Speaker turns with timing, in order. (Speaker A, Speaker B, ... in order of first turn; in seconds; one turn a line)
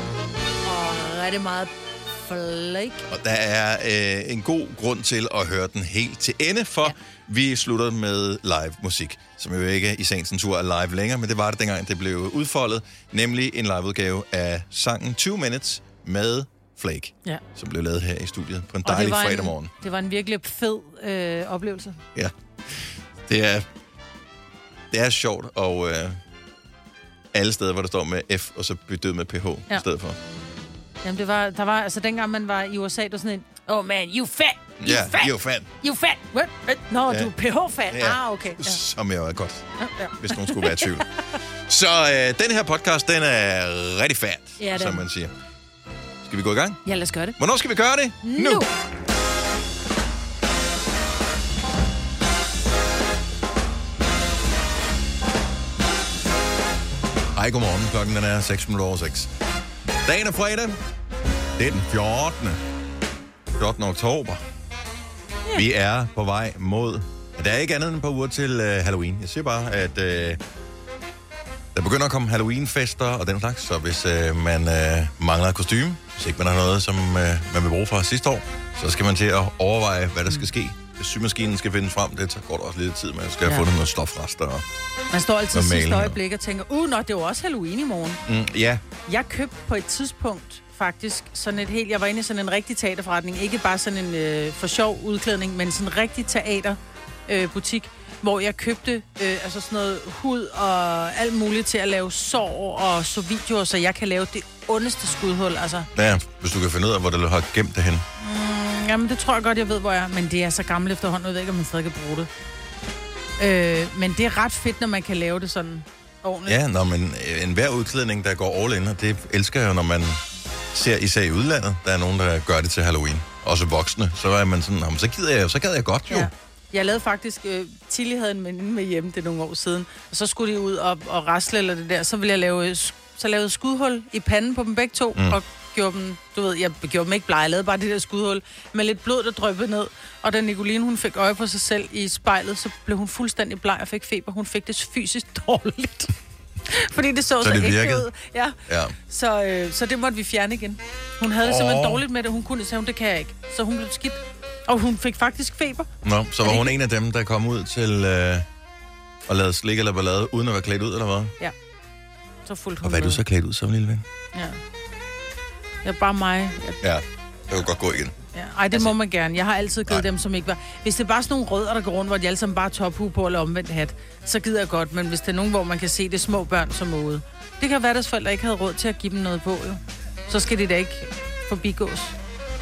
Speaker A: 0.6-1.7
Speaker A: 2.3-3.1
Speaker B: 3.1-19.7
Speaker A: 18.8-22.0
Speaker B: 22.1-23.7
Speaker B: 24.9-26.2
Speaker B: 27.3-30.2
Speaker A: 31.0-38.8
Speaker B: 34.8-35.7
Speaker B: 37.9-39.7
Speaker A: 39.8-41.0
Speaker B: 40.2-41.0
Speaker B: 41.7-45.3
Speaker A: 44.6-45.0
Speaker B: 46.2-46.8
Speaker A: 46.9-47.4
Speaker B: 47.4-48.6
Speaker A: 48.2-48.7
Speaker B: 57.3-59.3
Speaker B: 60.0-60.8
Speaker B: 61.6-62.6
Speaker B: 63.6-64.4
Speaker B: 65.5-70.4
Speaker B: 71.7-84.6
Speaker A: 85.1-88.2
Speaker B: 85.5-86.2
Speaker B: 88.3-88.8
Speaker A: 89.1-105.9
Speaker B: 106.0-108.0
Speaker A: 108.2-112.3
Speaker A: 113.4-116.6
Speaker B: 116.5-120.2
Speaker B: 120.7-126.3
Speaker A: 126.1-146.1
Speaker A: 146.7-148.6
Speaker B: 147.4-148.1
Speaker B: 148.7-148.9
Speaker A: 149.1-155.9
Speaker B: 151.4-152.0
Speaker B: 156.0-158.5
Speaker A: 156.4-156.7
Speaker B: 159.3-161.3
Speaker A: 162.5-163.2
Speaker B: 162.8-164.1
Speaker A: 165.8-166.8
Speaker B: 166.8-168.1
Speaker A: 168.3-182.2